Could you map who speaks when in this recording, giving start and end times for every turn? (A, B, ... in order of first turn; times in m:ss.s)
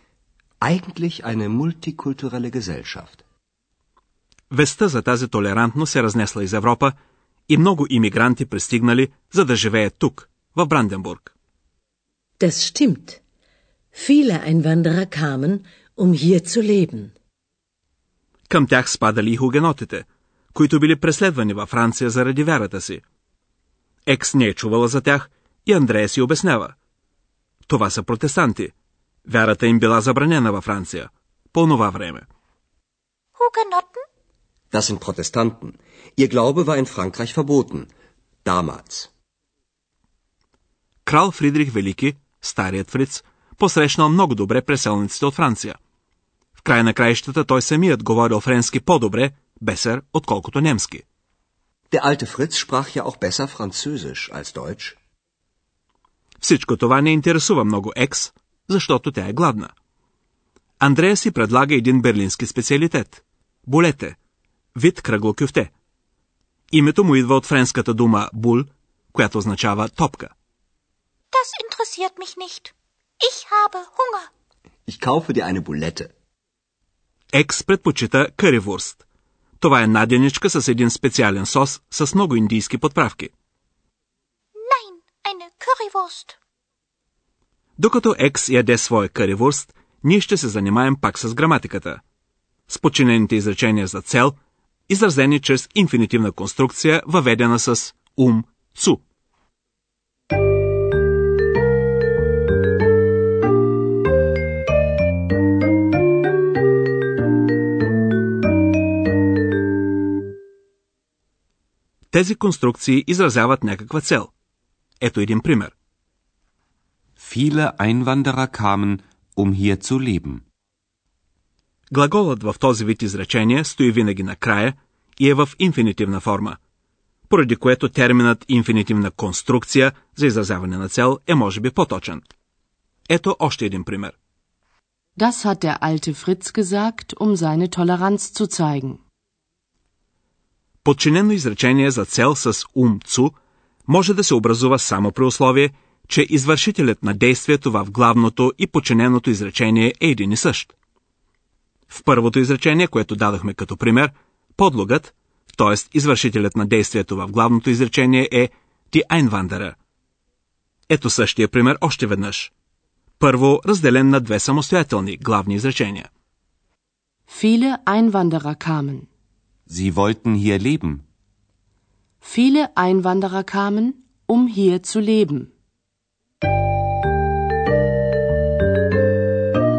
0:00.6-0:03.2 A
0:04.5-0:06.9 B
0:07.5-0:11.3 B
0:12.4-0:13.2 C
0:13.9-0:17.1 C
0:18.5-0:23.0 B
0:24.0-0:26.7 B
0:27.7-0:28.7 B
0:29.2-0:32.3 B
0:33.4-0:34.0 D
0:34.7-0:37.9 A
0:38.4-0:39.1 A
0:41.0-0:45.8 B
0:46.6-0:51.0 B
0:51.9-0:55.0 A
0:56.4-0:59.7 B
1:00.8-1:04.2 B
1:04.7-1:05.7 B
1:06.7-1:10.3 B
1:11.3-1:14.3 D
1:14.9-1:16.1 A
1:17.3-1:19.0 B
1:19.6-1:23.3 B
1:24.6-1:26.4 D
1:27.8-1:32.0 B
1:32.7-1:34.4 B
1:34.9-1:39.0 B
1:52.1-1:54.3 B
1:55.0-1:55.7 B
1:57.2-2:00.4 E
2:01.9-2:06.6 B
2:07.3-2:12.2 B
2:13.1-2:14.1 B
2:15.2-2:19.0 F
2:20.8-2:23.3 B
2:23.9-2:30.7 B
2:31.9-2:39.8 B
2:40.9-2:42.5 B
2:43.2-2:46.1 B
2:47.3-2:49.1 F
2:49.7-2:51.0 E
2:52.2-2:55.5 F